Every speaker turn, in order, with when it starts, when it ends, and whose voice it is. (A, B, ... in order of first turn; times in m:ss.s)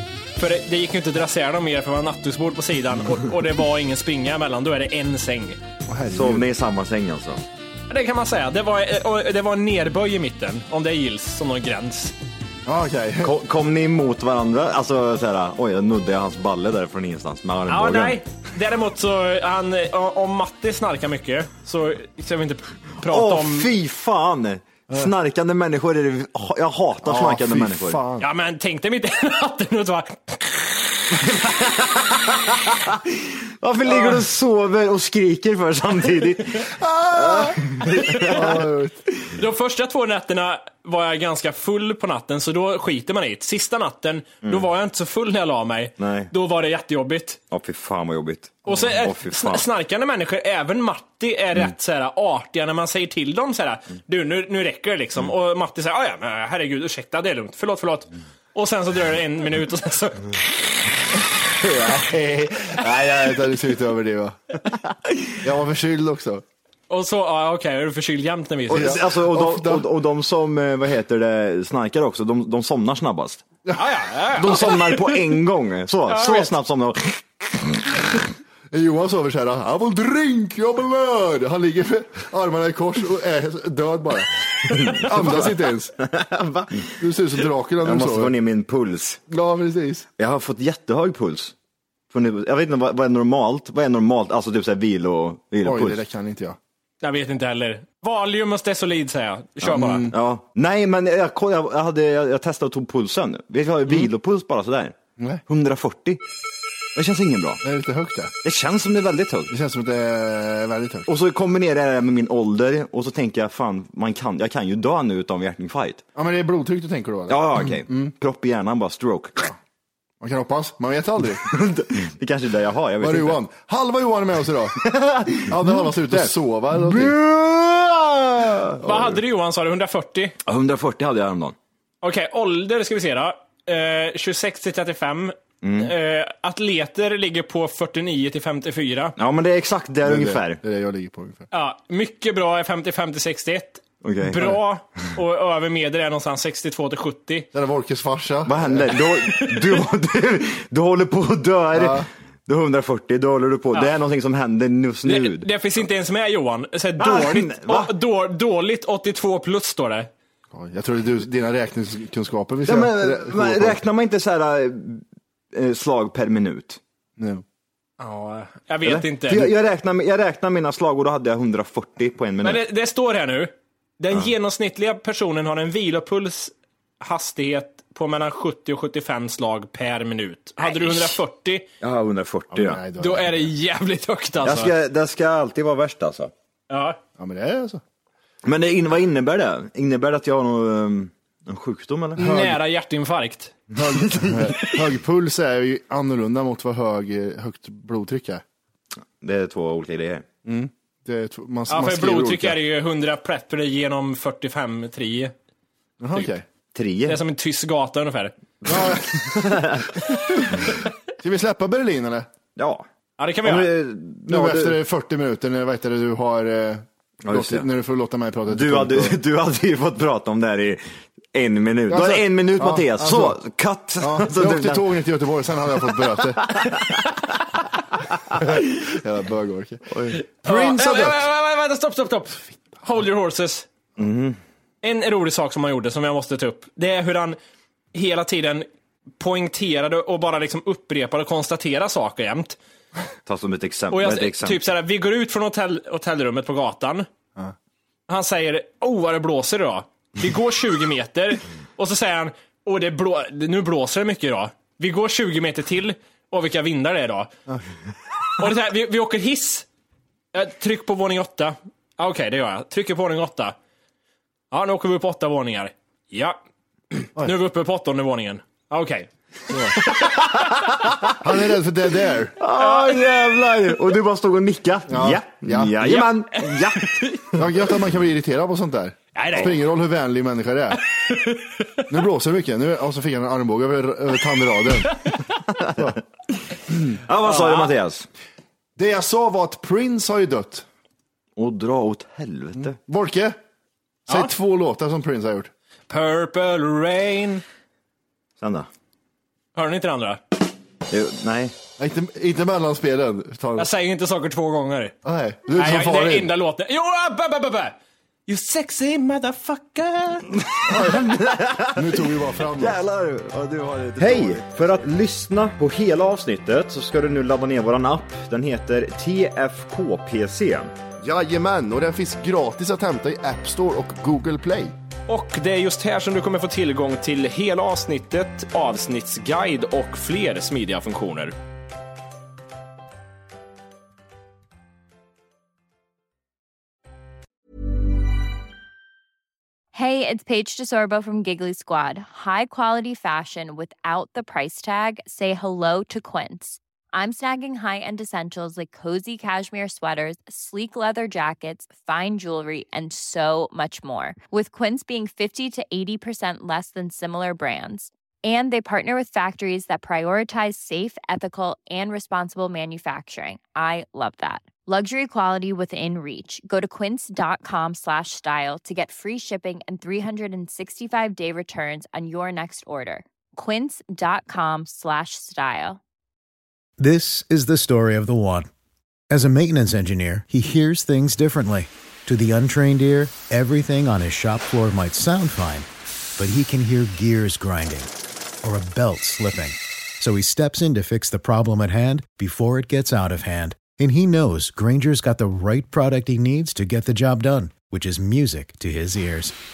0:00.4-0:05.6 A
0:05.9-0:06.5 B
0:06.1-0:07.4 C
0:07.9-0:12.1 A
0:12.6-0:13.3 B
0:13.2-0:18.2 C
0:17.7-0:23.7 A
0:23.0-0:28.0 C
0:27.0-0:28.2 B
0:28.2-0:31.1 A
0:31.4-0:38.6 C
0:36.7-0:39.0 B
0:39.3-0:47.4 A
0:46.0-0:46.3 C
0:47.5-0:49.6 C
0:48.6-1:00.4 A
1:01.4-1:04.4 B
1:05.4-1:06.4 B
1:06.9-1:09.0 A
1:08.7-1:13.4 C
1:08.7-1:09.9 B
1:13.8-1:15.4 A
1:14.3-1:18.1 C
1:16.1-1:16.5 A
1:18.7-1:24.3 B
1:24.7-1:26.9 C
1:25.0-1:26.0 B
1:26.9-1:28.3 B
1:27.8-1:29.2 C
1:29.3-1:30.1 B
1:30.2-1:31.5 C
1:32.1-1:36.0 C
1:35.6-1:36.6 B
1:37.0-1:40.1 A
1:39.6-1:40.2 B
1:40.1-1:46.2 C
1:46.9-1:47.6 C
1:47.6-1:48.3 B
1:48.4-1:49.5 C
1:49.5-1:51.1 B
1:51.0-1:56.0 C
1:56.2-1:58.1 B
1:57.3-1:59.4 C
2:00.2-2:01.5 B
2:01.4-2:03.4 C
2:03.0-2:04.8 B
2:04.8-2:09.2 C
2:05.4-2:07.2 B
2:08.8-2:10.3 A
2:10.4-2:11.6 C
2:12.0-2:19.2 A
2:15.6-2:15.9 C
2:19.2-2:20.6 C
2:20.0-2:21.4 B
2:21.5-2:27.5 A
2:24.0-2:24.6 C
2:27.5-2:28.9 B
2:28.4-2:35.5 C
2:29.3-2:29.6 A
2:31.7-2:32.1 B
2:35.0-2:40.1 A
2:37.0-2:38.0 C
2:40.5-2:43.8 B
2:42.6-2:46.8 C
2:47.2-2:47.4 B
2:48.0-2:49.5 A
2:48.8-2:52.6 C
2:52.4-3:01.6 A
3:01.8-3:02.8 C
3:02.5-3:03.5 B
3:03.0-3:04.7 A
3:04.4-3:06.3 C
3:06.7-3:07.0 A
3:07.2-3:07.8 B
3:08.4-3:12.2 C
3:12.2-3:13.6 A
3:12.2-3:12.6 B
3:13.8-3:18.4 B
3:14.0-3:14.5 C
3:19.2-3:20.2 C
3:20.4-3:22.6 B
3:21.7-3:25.3 A
3:26.0-3:26.4 B
3:26.7-3:27.2 C
3:27.0-3:28.3 A
3:28.6-3:30.0 C
3:28.7-3:32.3 B
3:32.6-3:32.8 C
3:33.2-3:33.7 A
3:33.4-3:34.8 C
3:34.3-3:39.2 B
3:37.2-3:37.7 C
3:38.5-3:44.9 C
3:41.9-3:43.4 B
3:44.0-3:46.5 B
3:46.0-3:47.0 C
3:48.3-3:51.2 B
3:49.9-3:50.2 C
3:50.4-3:53.7 A
3:54.0-3:54.4 C
3:54.8-3:57.4 A
3:57.9-3:58.6 A
3:59.2-4:02.6 A
4:03.2-4:04.6 C
4:03.9-4:07.1 A
4:08.1-4:17.3 A
4:18.4-4:19.7 A
4:20.3-4:23.5 A
4:24.5-4:26.4 A
4:26.9-4:29.1 A
4:29.5-4:29.8 B
4:30.0-4:31.1 C
4:31.2-4:32.4 B
4:32.4-4:37.2 C
4:32.5-4:33.0 A
4:34.9-4:35.8 B
4:35.8-4:37.4 A
4:37.3-4:40.8 B
4:39.1-4:39.6 A
4:40.9-4:41.8 A
4:41.9-4:44.9 B
4:45.5-4:48.1 C
4:47.2-4:47.7 A
4:48.8-4:50.6 B
4:51.4-4:52.8 C
4:52.6-4:53.4 B
4:54.1-4:55.5 B
4:55.9-4:57.4 A
4:58.4-4:58.7 C
4:59.5-5:00.2 A
5:00.9-5:01.5 C
5:01.8-5:03.7 B
5:03.6-5:04.9 A
5:05.0-5:06.3 B
5:05.5-5:07.8 A
5:08.3-5:10.3 A
5:10.3-5:20.7 C
5:10.6-5:12.8 B
5:13.6-5:14.4 B
5:21.0-5:24.7 B
5:25.1-5:31.3 A
5:39.7-6:15.8 D
6:16.8-6:18.5 E
6:19.1-6:25.7 E
6:26.2-6:27.9 E
6:28.4-6:39.3 E